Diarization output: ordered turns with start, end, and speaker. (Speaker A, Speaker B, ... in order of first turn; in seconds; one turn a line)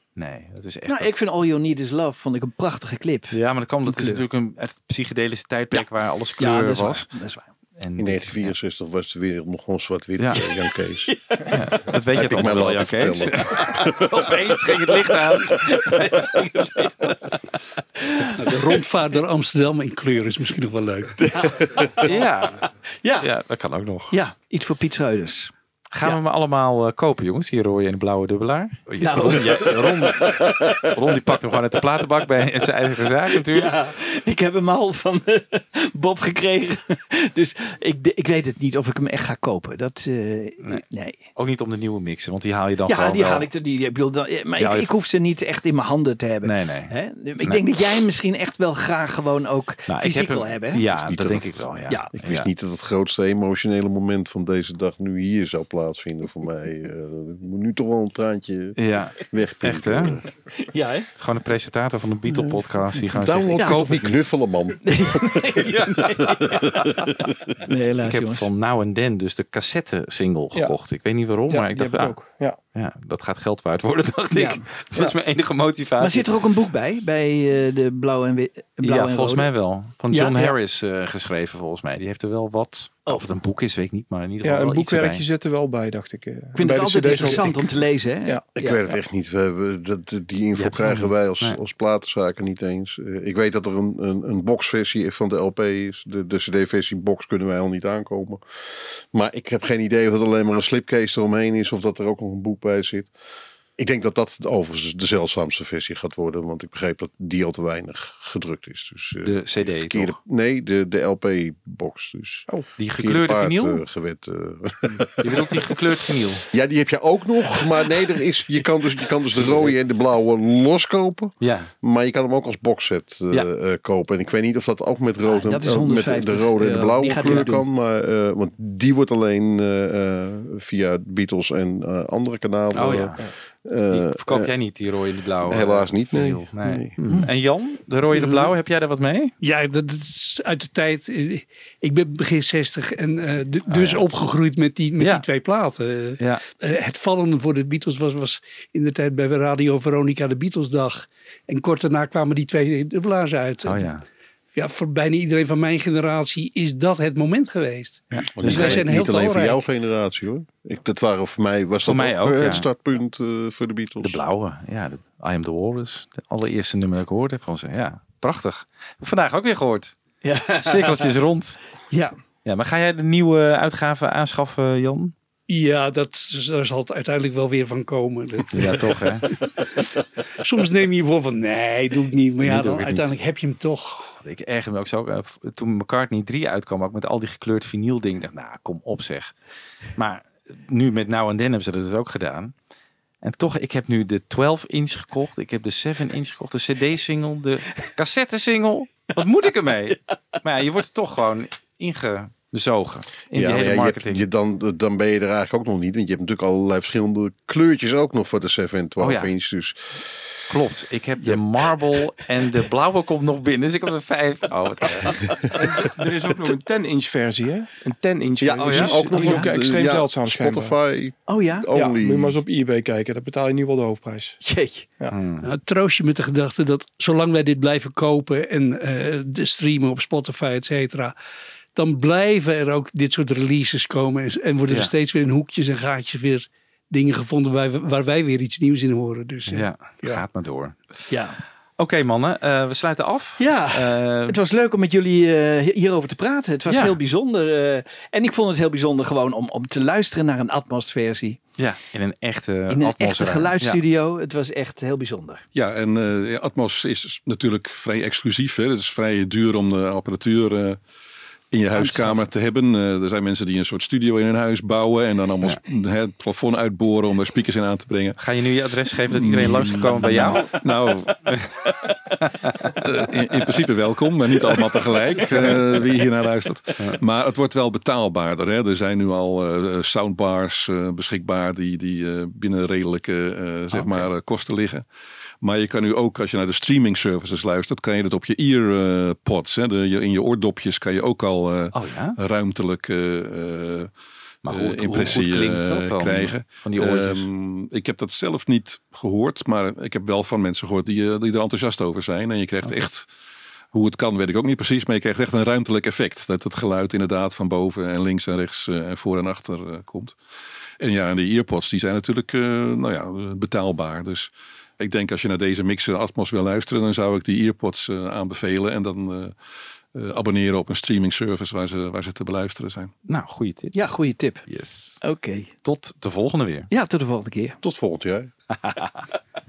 Speaker A: 0.1-1.1
Speaker B: 0.9-4.2
Speaker A: 3.3-7.1
Speaker B: 5.7-7.5
Speaker A: 7.8-8.5
Speaker C: 8.0-11.2
Speaker A: 10.2-10.4
Speaker B: 11.2-11.6
Speaker A: 11.5-15.7
Speaker C: 12.1-14.1
Speaker B: 14.6-18.8
Speaker D: 18.4-21.2
Speaker B: 21.2-22.2
Speaker A: 22.0-22.7
Speaker B: 23.0-23.3
Speaker A: 23.2-24.1
Speaker B: 24.1-26.2
Speaker A: 25.9-33.7
Speaker B: 29.0-30.8
Speaker B: 33.3-41.2
Speaker A: 40.6-43.5
Speaker B: 42.9-50.8
Speaker A: 44.6-44.9
Speaker A: 46.4-47.6
Speaker A: 49.9-52.5
Speaker C: 50.9-60.3
Speaker A: 58.8-60.2
Speaker B: 60.7-61.1
Speaker A: 61.1-64.3
Speaker C: 62.3-67.4
Speaker B: 63.5-63.8
Speaker B: 64.8-68.5
Speaker A: 68.0-72.2
Speaker E: 71.5-72.6
Speaker A: 72.7-76.4
Speaker B: 74.3-74.6
Speaker B: 76.0-79.5
Speaker A: 78.8-85.2
Speaker B: 80.1-80.6
Speaker B: 83.0-83.3
Speaker E: 84.4-88.5
Speaker B: 86.5-88.8
Speaker C: 88.5-103.1
Speaker A: 90.5-91.6
Speaker C: 103.8-115.4
Speaker A: 109.2-110.2
Speaker A: 112.8-113.8
Speaker A: 115.2-116.5
Speaker C: 116.5-134.5
Speaker A: 119.3-119.8
Speaker A: 121.4-121.7
Speaker B: 125.2-127.6
Speaker A: 132.7-133.2
Speaker A: 133.9-139.3
Speaker C: 135.4-137.0
Speaker D: 139.4-153.9
Speaker A: 143.7-144.0
Speaker A: 145.0-145.2
Speaker A: 153.6-154.0
Speaker D: 154.5-159.6
Speaker A: 158.1-158.8
Speaker C: 158.4-164.2
Speaker A: 161.8-162.7
Speaker A: 164.0-169.9
Speaker B: 170.2-171.1
Speaker A: 170.6-171.6
Speaker B: 171.9-172.2
Speaker A: 172.4-175.1
Speaker D: 175.5-184.1
Speaker A: 178.5-179.3
Speaker A: 182.4-183.1
Speaker A: 184.2-189.3
Speaker A: 189.9-192.5
Speaker A: 193.2-204.2
Speaker C: 203.3-210.0
Speaker A: 209.0-209.3
Speaker A: 210.5-215.2
Speaker E: 215.5-220.8
Speaker C: 218.4-222.4
Speaker A: 218.6-219.0
Speaker B: 219.1-219.5
Speaker B: 221.3-221.7
Speaker E: 221.7-224.4
Speaker B: 224.4-224.9
Speaker A: 225.1-225.4
Speaker D: 225.4-231.1
Speaker D: 231.7-240.2
Speaker A: 239.5-241.1
Speaker B: 241.1-241.4
Speaker A: 241.8-244.4
Speaker B: 243.4-251.4
Speaker A: 246.7-247.0
Speaker A: 251.6-253.8
Speaker B: 252.7-255.4
Speaker F: 255.5-260.8
Speaker F: 261.5-268.2
Speaker B: 261.7-262.2
Speaker A: 268.2-270.6
Speaker F: 269.1-271.3
Speaker A: 272.2-272.8
Speaker F: 272.7-284.8
Speaker A: 283.7-284.1
Speaker F: 285.4-293.9
Speaker A: 291.7-292.2
Speaker A: 294.4-297.3
Speaker F: 294.5-303.1
Speaker F: 303.7-310.1
Speaker F: 310.8-319.3
Speaker F: 319.9-322.9
Speaker A: 323.1-323.9
Speaker B: 323.7-324.4
Speaker A: 324.4-325.0
Speaker B: 325.0-325.5
Speaker A: 325.6-326.7
Speaker B: 326.7-327.6
Speaker C: 327.6-328.3
Speaker A: 328.6-329.0